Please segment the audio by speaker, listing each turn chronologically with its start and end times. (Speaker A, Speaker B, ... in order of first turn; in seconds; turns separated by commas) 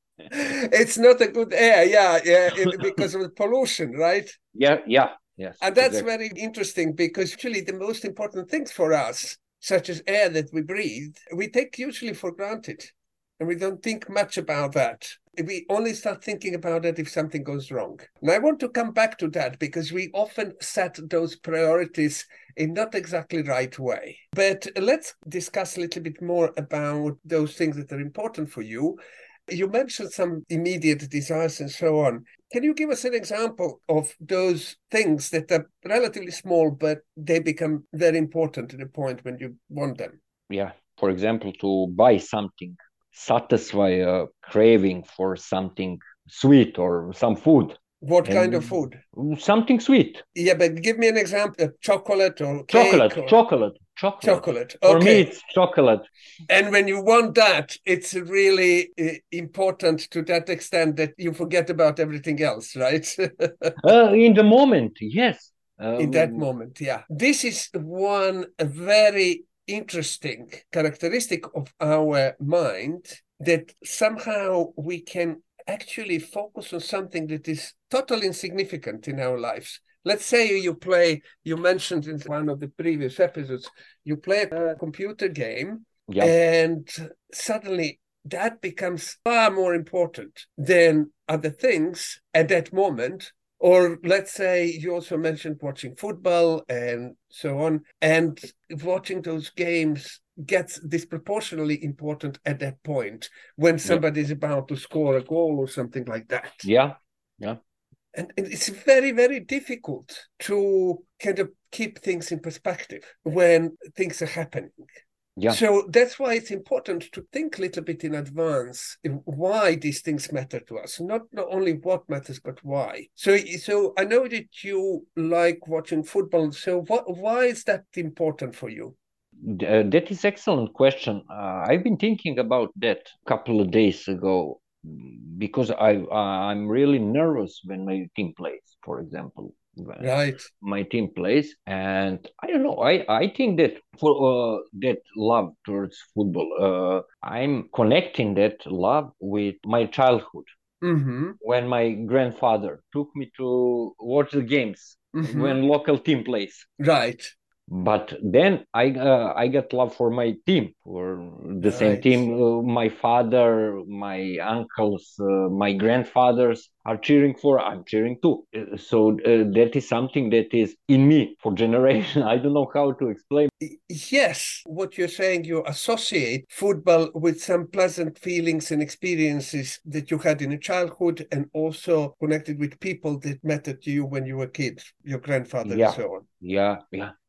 Speaker A: 0.3-4.4, Speaker B: 4.5-6.1, Speaker A: 5.6-40.2, Speaker B: 40.5-50.2, Speaker A: 48.0-49.0, Speaker A: 50.4-53.4, Speaker B: 52.7-56.1, Speaker A: 54.2-55.3, Speaker A: 56.5-63.8, Speaker B: 63.8-66.5, Speaker A: 66.0-106.7, Speaker B: 86.1-86.3, Speaker B: 106.6-107.6, Speaker A: 108.1-114.8, Speaker A: 115.5-129.0, Speaker B: 129.4-150.5, Speaker A: 140.0-140.5, Speaker A: 150.8-151.4, Speaker B: 151.4-156.7, Speaker A: 155.1-155.6, Speaker A: 156.8-157.3, Speaker B: 157.7-173.5, Speaker A: 161.6-162.3, Speaker A: 173.6-186.2, Speaker B: 185.7-187.1